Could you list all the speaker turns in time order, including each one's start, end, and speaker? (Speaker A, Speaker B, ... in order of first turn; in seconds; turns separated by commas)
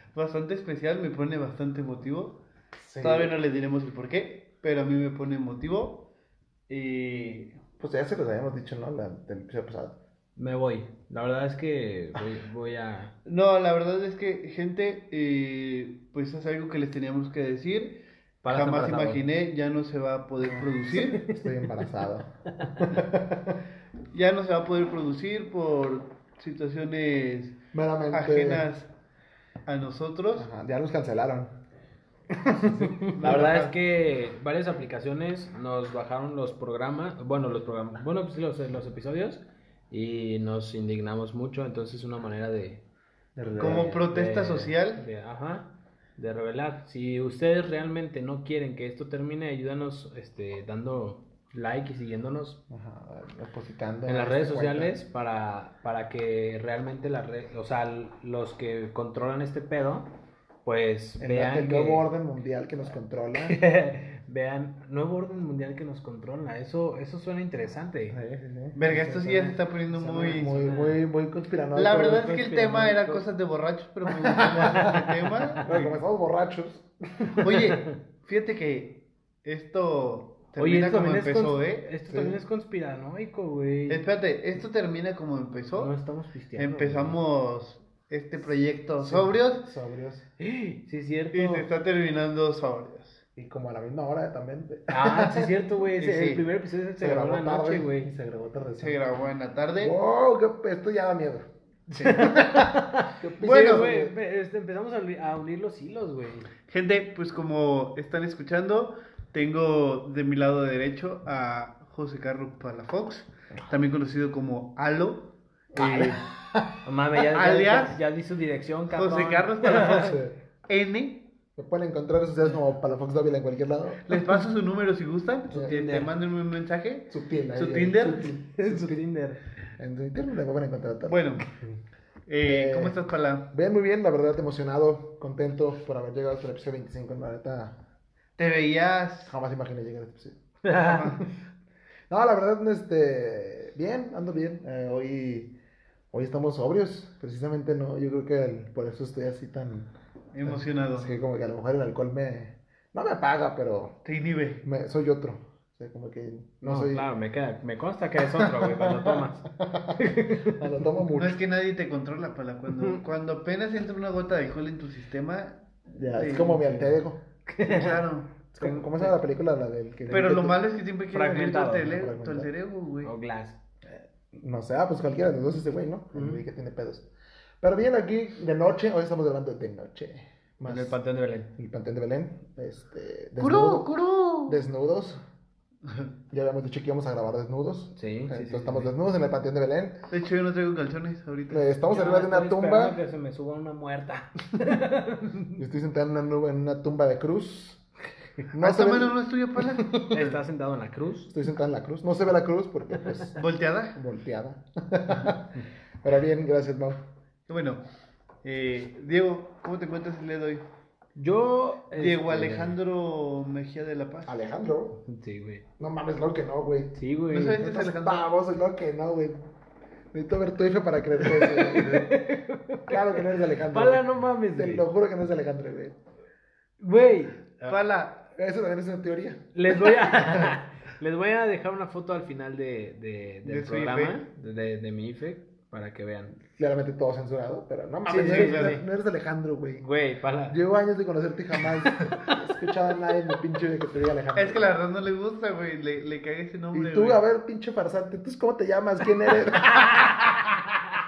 Speaker A: 0.1-2.4, Speaker B: 2.8-3.4, Speaker A: 3.0-6.1, Speaker A: 6.7-7.6, Speaker B: 7.8-10.0, Speaker C: 10.4-13.1, Speaker A: 13.2-21.3, Speaker C: 18.4-19.2, Speaker B: 20.4-23.6, Speaker A: 24.1-27.6, Speaker B: 27.7-28.7, Speaker A: 28.1-28.9, Speaker A: 29.7-30.5, Speaker B: 30.4-31.5, Speaker B: 32.3-33.5, Speaker A: 33.1-33.8, Speaker C: 33.2-42.8, Speaker B: 43.4-44.0, Speaker A: 43.6-45.0, Speaker C: 43.6-52.6, Speaker B: 52.7-55.0, Speaker C: 54.0-60.1, Speaker C: 60.6-62.0, Speaker B: 61.2-63.6, Speaker C: 63.4-68.2, Speaker B: 68.1-72.3, Speaker A: 68.8-70.6, Speaker C: 68.9-69.6, Speaker C: 70.2-71.0, Speaker A: 71.8-75.9, Speaker C: 72.1-73.2, Speaker B: 74.2-75.1, Speaker C: 74.5-75.9, Speaker B: 75.6-77.6, Speaker A: 77.4-81.9, Speaker C: 80.6-84.0, Speaker B: 82.1-82.4, Speaker A: 83.9-85.9, Speaker C: 85.8-87.2, Speaker A: 86.5-89.7, Speaker B: 89.0-90.2, Speaker C: 90.4-91.7, Speaker A: 91.3-93.2, Speaker B: 93.4-95.5, Speaker C: 94.9-98.1, Speaker A: 96.0-96.4, Speaker B: 97.0-99.0, Speaker A: 98.8-100.0, Speaker B: 99.8-101.5, Speaker C: 101.9-106.5, Speaker B: 102.0-102.6, Speaker B: 103.2-104.2, Speaker A: 103.4-103.9, Speaker A: 106.7-116.2, Speaker B: 115.7-116.6, Speaker C: 116.8-120.2, Speaker A: 117.1-118.0, Speaker A: 118.9-121.3, Speaker B: 121.6-124.4, Speaker A: 124.0-128.3, Speaker C: 125.6-126.1, Speaker B: 127.1-129.0, Speaker C: 128.5-129.4, Speaker B: 129.8-131.3, Speaker A: 131.1-131.4, Speaker A: 132.3-133.5, Speaker B: 132.4-133.0, Speaker B: 133.5-137.8, Speaker A: 138.4-139.3, Speaker B: 139.2-140.4, Speaker C: 140.6-141.1, Speaker A: 140.8-141.2, Speaker B: 142.1-145.6, Speaker B: 146.1-149.9, Speaker A: 150.3-151.1, Speaker B: 150.4-153.9, Speaker A: 154.0-154.6, Speaker B: 154.6-157.1, Speaker C: 156.6-159.4, Speaker B: 158.4-161.4, Speaker C: 159.9-160.6, Speaker A: 161.1-166.9, Speaker B: 165.9-167.2, Speaker C: 167.5-168.0, Speaker A: 167.6-168.3, Speaker B: 168.5-170.6, Speaker C: 168.6-169.2, Speaker A: 170.1-173.1, Speaker C: 171.1-171.9, Speaker B: 171.8-172.5, Speaker C: 173.0-173.6, Speaker B: 174.3-177.1, Speaker C: 176.1-176.4, Speaker B: 177.6-181.0, Speaker C: 180.7-181.5, Speaker B: 181.5-183.9, Speaker A: 183.4-184.6, Speaker B: 184.4-185.2, Speaker B: 186.3-190.0, Speaker C: 187.9-188.9, Speaker A: 190.1-191.7, Speaker B: 191.5-193.0, Speaker C: 191.9-195.6, Speaker B: 195.6-197.8, Speaker B: 198.5-200.2, Speaker A: 198.6-200.4, Speaker C: 200.1-201.3, Speaker B: 201.3-203.4, Speaker A: 203.3-204.0, Speaker B: 203.9-207.0, Speaker A: 207.5-207.8, Speaker A: 208.4-210.7, Speaker C: 211.2-212.8, Speaker A: 211.9-214.4, Speaker B: 214.3-215.0, Speaker C: 215.0-215.7, Speaker B: 215.8-216.9, Speaker C: 216.9-217.6, Speaker A: 217.3-218.3, Speaker B: 217.5-219.4, Speaker B: 220.1-222.1, Speaker C: 221.2-224.8, Speaker B: 222.9-226.0, Speaker C: 226.8-227.8, Speaker A: 227.7-228.3, Speaker B: 228.3-230.5, Speaker C: 229.5-236.4, Speaker A: 233.4-234.2, Speaker B: 236.5-239.9, Speaker C: 238.1-238.8, Speaker A: 238.2-238.8, Speaker C: 239.8-240.6, Speaker B: 240.5-244.7, Speaker A: 244.3-247.2, Speaker B: 246.7-249.9, Speaker C: 249.6-250.8